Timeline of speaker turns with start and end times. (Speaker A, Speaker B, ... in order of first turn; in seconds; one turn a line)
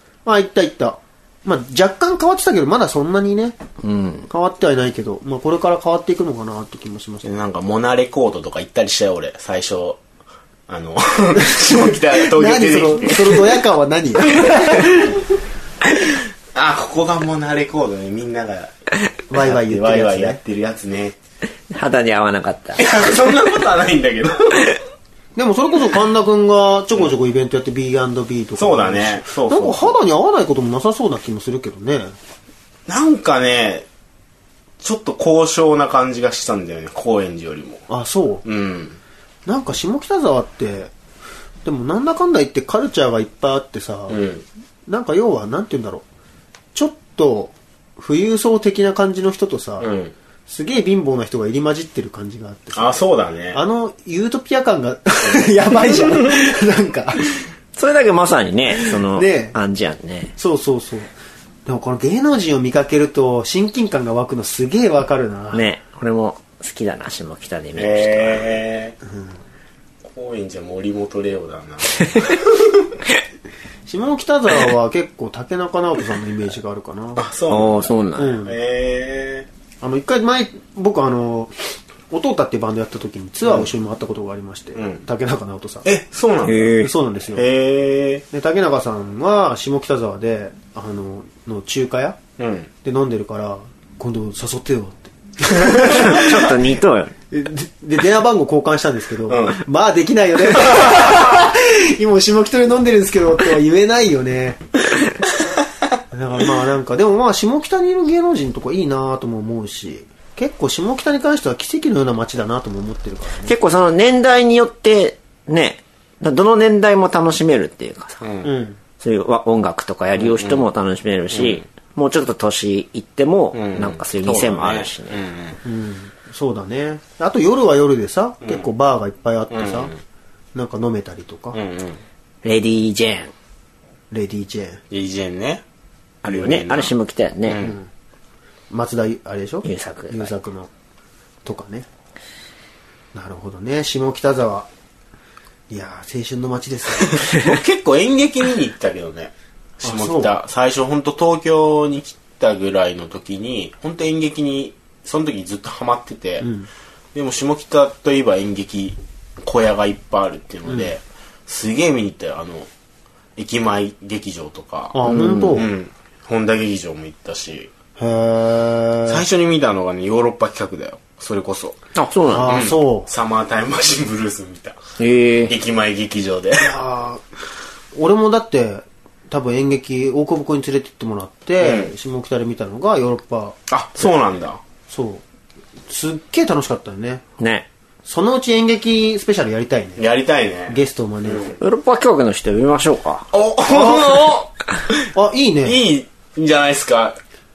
Speaker A: 0.3-3.6
Speaker B: 3.8-4.3
Speaker A: 4.3-7.3
Speaker C: 7.2-10.0
Speaker C: 10.7-13.6
Speaker A: 11.4-15.2
Speaker C: 14.4-14.9
Speaker C: 16.5-18.7
Speaker A: 19.3-20.4
Speaker C: 19.3-21.2
Speaker B: 21.7-22.9
Speaker C: 22.8-24.7
Speaker A: 25.4-32.1
Speaker C: 28.6-30.0
Speaker C: 32.9-33.9
Speaker C: 34.8-37.8
Speaker A: 37.9-38.4
Speaker C: 38.5-39.0
Speaker A: 39.5-40.9
Speaker A: 41.6-44.2
Speaker C: 44.1-44.5
Speaker A: 44.9-46.0
Speaker A: 46.7-49.9
Speaker C: 49.8-50.1
Speaker A: 50.5-53.0
Speaker C: 52.8-53.6
Speaker A: 53.5-57.3
Speaker B: 57.8-60.3
Speaker A: 59.0-59.6
Speaker A: 60.4-61.1
Speaker A: 61.7-65.7
Speaker B: 65.5-68.6
Speaker C: 67.8-69.0
Speaker A: 69.1-69.4
Speaker C: 70.0-73.0
Speaker A: 73.9-77.3
Speaker C: 77.2-79.5
Speaker B: 77.5-78.4
Speaker A: 78.2-78.5
Speaker A: 79.8-85.9
Speaker C: 84.8-85.0
Speaker C: 85.8-88.2
Speaker B: 86.5-86.9
Speaker A: 86.8-87.5
Speaker A: 88.3-92.2
Speaker C: 92.4-92.7
Speaker A: 92.8-96.3
Speaker B: 95.9-97.1
Speaker A: 97.3-104.6
Speaker C: 99.3-99.6
Speaker C: 100.8-101.2
Speaker A: 106.1-113.5
Speaker B: 113.5-118.2
Speaker C: 118.2-118.5
Speaker A: 118.4-118.8
Speaker B: 119.0-125.2
Speaker C: 120.2-120.7
Speaker C: 121.3-121.6
Speaker C: 123.5-125.6
Speaker A: 125.7-129.9
Speaker C: 129.5-130.0
Speaker A: 130.6-131.6
Speaker C: 131.5-132.0
Speaker B: 132.4-133.3
Speaker A: 134.1-134.8
Speaker C: 134.9-135.6
Speaker C: 136.2-136.9
Speaker B: 136.2-137.7
Speaker C: 137.5-137.8
Speaker A: 137.6-137.9
Speaker A: 138.7-140.7
Speaker B: 139.6-140.3
Speaker A: 141.4-141.9
Speaker A: 143.1-144.7
Speaker A: 145.7-147.3
Speaker C: 147.2-156.5
Speaker A: 149.8-150.3
Speaker A: 156.4-156.7
Speaker C: 157.1-162.7
Speaker C: 163.4-167.7
Speaker A: 164.9-165.7
Speaker B: 165.1-165.5
Speaker A: 168.0-169.2
Speaker C: 169.1-171.8
Speaker B: 172.0-172.7
Speaker A: 172.3-173.1
Speaker C: 172.4-174.8
Speaker B: 175.0-175.6
Speaker C: 175.5-176.7
Speaker A: 176.6-177.2
Speaker A: 177.9-183.6
Speaker C: 181.6-181.9
Speaker C: 183.7-184.6
Speaker A: 184.9-185.2
Speaker A: 185.9-187.2
Speaker B: 187.4-187.7
Speaker A: 188.1-190.1
Speaker C: 190.0-191.6
Speaker A: 190.7-191.6
Speaker B: 191.6-193.3
Speaker C: 193.3-195.0
Speaker A: 193.7-194.3
Speaker A: 195.1-195.8
Speaker C: 195.6-197.2